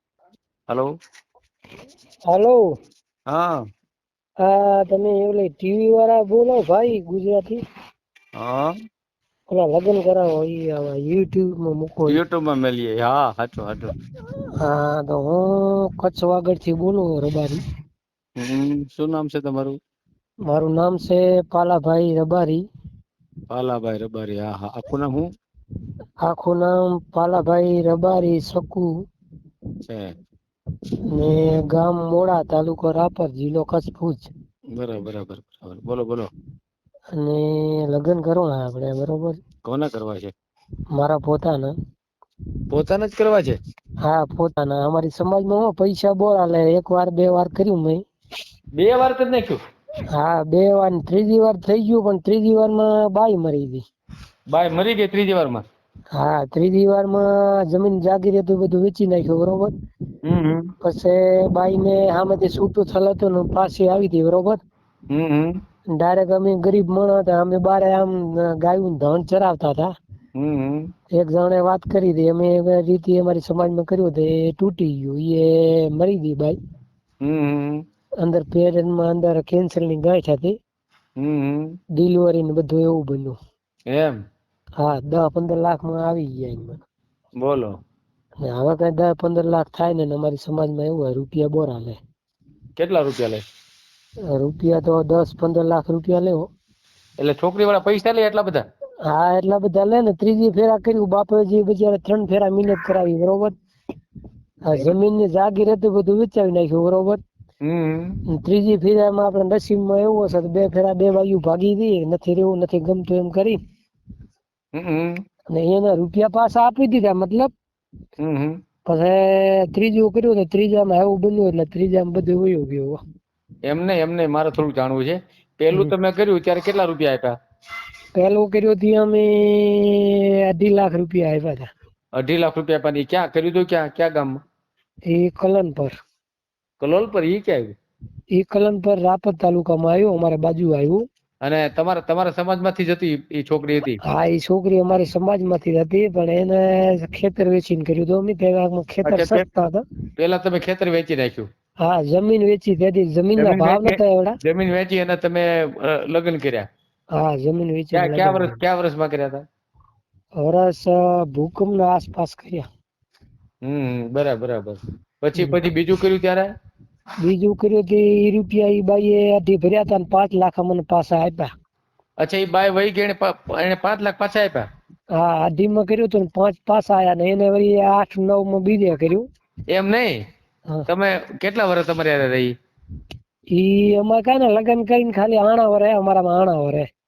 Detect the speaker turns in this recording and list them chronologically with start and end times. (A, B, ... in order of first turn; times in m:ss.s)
0:02.3-0:02.6 A
0:03.3-0:03.6 B
0:04.4-0:07.6 A
0:08.4-0:08.7 B
0:09.5-0:12.2 A
0:12.1-0:13.9 B
0:14.6-0:17.6 A
0:18.4-0:19.8 B
0:20.5-0:22.6 A
0:23.5-0:25.3 B
0:26.2-0:28.9 A
0:29.8-0:30.1 B
0:31.1-0:34.3 A
0:34.7-0:36.3 B
0:37.1-0:39.4 A
0:39.6-0:40.3 B
0:40.9-0:41.7 A
0:42.7-0:43.6 B
0:44.0-0:48.0 A
0:48.7-0:49.6 B
0:50.1-0:53.8 A
0:54.5-0:55.6 B
0:56.1-0:59.7 A
1:00.2-1:00.7 B
1:00.8-1:04.6 A
1:05.1-1:05.6 B
1:05.9-1:09.9 A
1:10.3-1:10.9 B
1:11.1-1:16.6 A
1:17.2-1:17.8 B
1:18.2-1:20.6 A
1:21.2-1:21.8 B
1:22.0-1:23.4 A
1:23.9-1:24.2 B
1:24.8-1:26.8 A
1:27.4-1:27.8 B
1:28.4-1:32.0 A
1:32.8-1:33.4 B
1:34.3-1:36.5 A
1:37.2-1:38.7 B
1:39.1-1:43.5 A
1:44.6-1:47.2 A
1:47.6-1:48.2 B
1:48.3-1:53.6 A
1:54.7-1:55.2 B
1:55.5-1:57.5 A
1:58.2-1:58.6 B
1:58.8-2:03.0 A
2:03.6-2:07.4 B
2:08.1-2:11.7 A
2:12.1-2:14.4 B
2:15.1-2:15.9 A
2:16.8-2:17.8 B
2:18.3-2:21.0 A
2:21.4-2:24.0 B
2:24.0-2:29.8 A
2:29.0-2:29.4 B
2:30.2-2:31.5 B
2:31.8-2:34.4 A
2:33.4-2:36.7 B
2:37.1-2:38.6 A
2:37.9-2:39.4 B
2:40.4-2:42.6 A
2:43.6-2:46.5 B
2:47.2-2:51.5 A
2:52.2-2:54.7 B
2:55.1-2:59.3 A
2:59.7-3:00.2 B
3:00.9-3:02.5 B
3:03.5-3:06.9 A